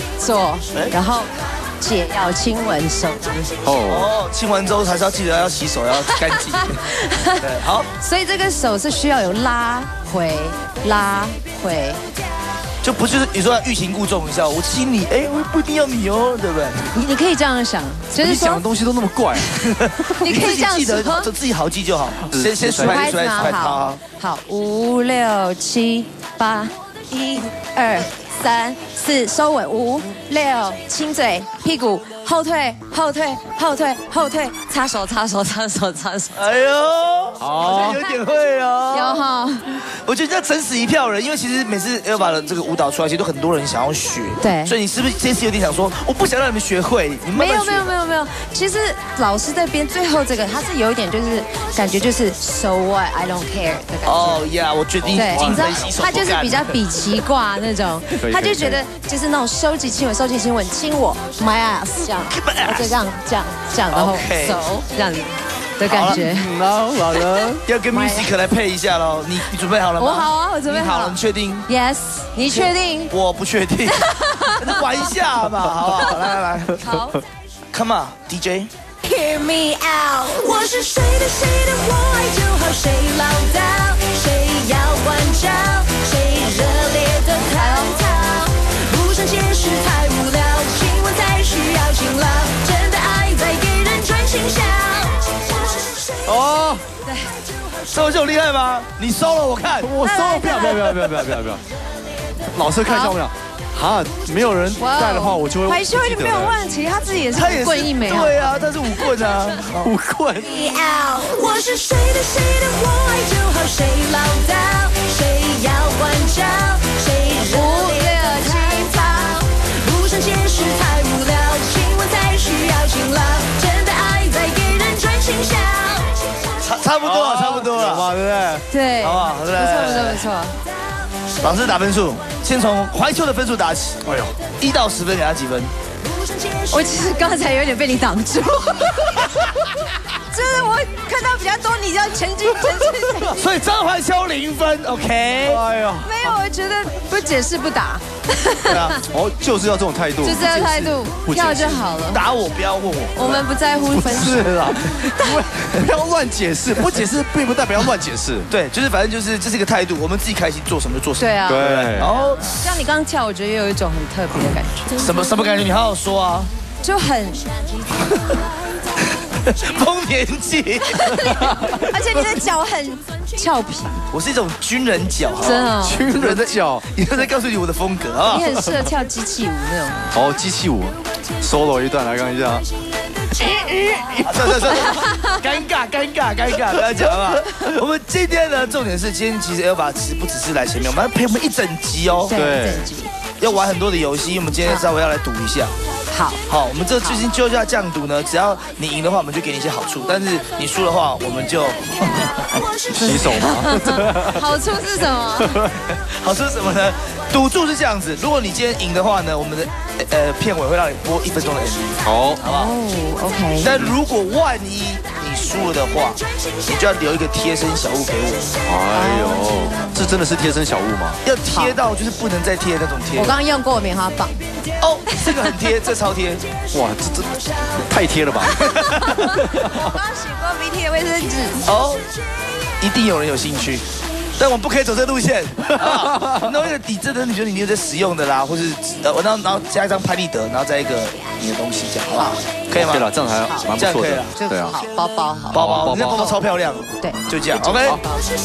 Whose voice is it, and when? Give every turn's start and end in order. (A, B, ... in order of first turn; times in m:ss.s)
0:00.2-0:03.5 A
0:03.6-0:04.1 B
0:03.8-0:06.8 C
0:06.9-0:07.4 A
0:07.4-0:07.9 C
0:07.9-0:12.0 A
0:12.8-0:16.9 C
0:16.9-0:18.6 A
0:18.2-0:19.7 B
0:19.6-0:24.0 C
0:20.0-0:21.3 A
0:22.3-0:23.5 B
0:22.8-0:36.4 A
0:36.4-0:39.2 C
0:37.4-0:37.9 B
0:37.7-0:38.1 A
0:38.9-0:39.8 A
0:39.9-0:47.9 C
0:44.4-0:44.7 A
0:47.3-0:54.5 A
0:54.0-0:56.8 C
0:55.0-0:55.8 B
0:55.1-1:06.5 A
0:58.2-0:58.8 B
1:02.2-1:02.9 C
1:03.9-1:04.6 C
1:05.9-1:06.2 C
1:06.0-1:07.6 B
1:07.6-1:11.6 C
1:07.9-1:08.3 A
1:10.0-1:13.1 A
1:12.5-1:16.8 C
1:13.9-1:14.7 A
1:16.8-1:17.2 A
1:17.7-1:18.7 C
1:19.0-1:36.0 D
1:27.4-1:28.1 A
1:36.2-1:36.8 B
1:37.0-1:37.3 A
1:37.9-1:39.9 C
1:39.8-1:41.6 B
1:40.0-1:41.1 A
1:42.5-1:46.6 B
1:42.8-1:43.2 A
1:44.8-1:49.4 A
1:47.3-1:49.9 C
1:49.8-1:50.5 B
1:50.4-2:06.2 D
1:57.4-1:59.4 A
2:06.6-2:08.1 C
2:07.0-2:08.6 B
2:08.7-2:10.6 A
2:09.0-2:10.2 C
2:11.4-2:15.7 C
2:16.7-2:19.4 A
2:20.3-2:23.4 A
2:23.3-2:25.6 C
2:25.4-2:26.4 B
2:26.0-2:28.9 A
2:28.6-2:29.0 C
2:29.1-2:31.9 B
2:30.2-2:32.2 A
2:32.1-2:33.4 C
2:33.1-2:34.6 A
2:33.9-2:38.5 B
2:35.2-2:35.4 A
2:38.5-2:42.6 C
2:41.2-2:45.0 A
2:41.5-2:42.1 B
2:45.0-2:46.5 C
2:46.8-2:47.5 A
2:49.5-2:51.8 C
2:50.9-2:54.1 A
2:54.1-2:58.5 C
2:55.4-2:56.0 A
2:55.8-2:56.9 B
2:58.2-3:00.2 A
3:00.1-3:02.7 B
3:03.5-3:04.1 B
3:04.2-3:12.3 C
3:04.7-3:05.3 A
3:12.3-3:13.1 A
3:12.3-3:12.9 B
3:13.4-3:15.7 C
3:16.1-3:16.4 A
3:16.5-3:22.6 C
3:22.9-3:24.4 B
3:23.0-3:25.6 A
3:25.4-3:25.7 B
3:25.9-3:32.7 C
3:32.0-3:32.4 B
3:32.4-3:33.8 A
3:33.6-3:38.5 C
3:38.6-3:41.2 B
3:38.9-3:40.0 A
3:41.2-3:43.4 C
3:41.5-3:41.8 A
3:43.1-3:44.4 A
3:44.8-3:46.4 C
3:46.7-3:48.8 B
3:48.5-3:51.7 A
3:48.6-3:49.2 C
3:49.4-3:49.9 B
3:51.6-3:52.0 C
3:52.8-4:03.0 C
3:56.1-3:56.4 B
4:02.1-4:02.4 A
4:02.7-4:04.8 B
4:03.8-4:04.3 C
4:04.3-4:06.4 A
4:05.5-4:08.0 C
4:05.5-4:06.2 B
4:07.0-4:08.2 A
4:07.7-4:08.0 B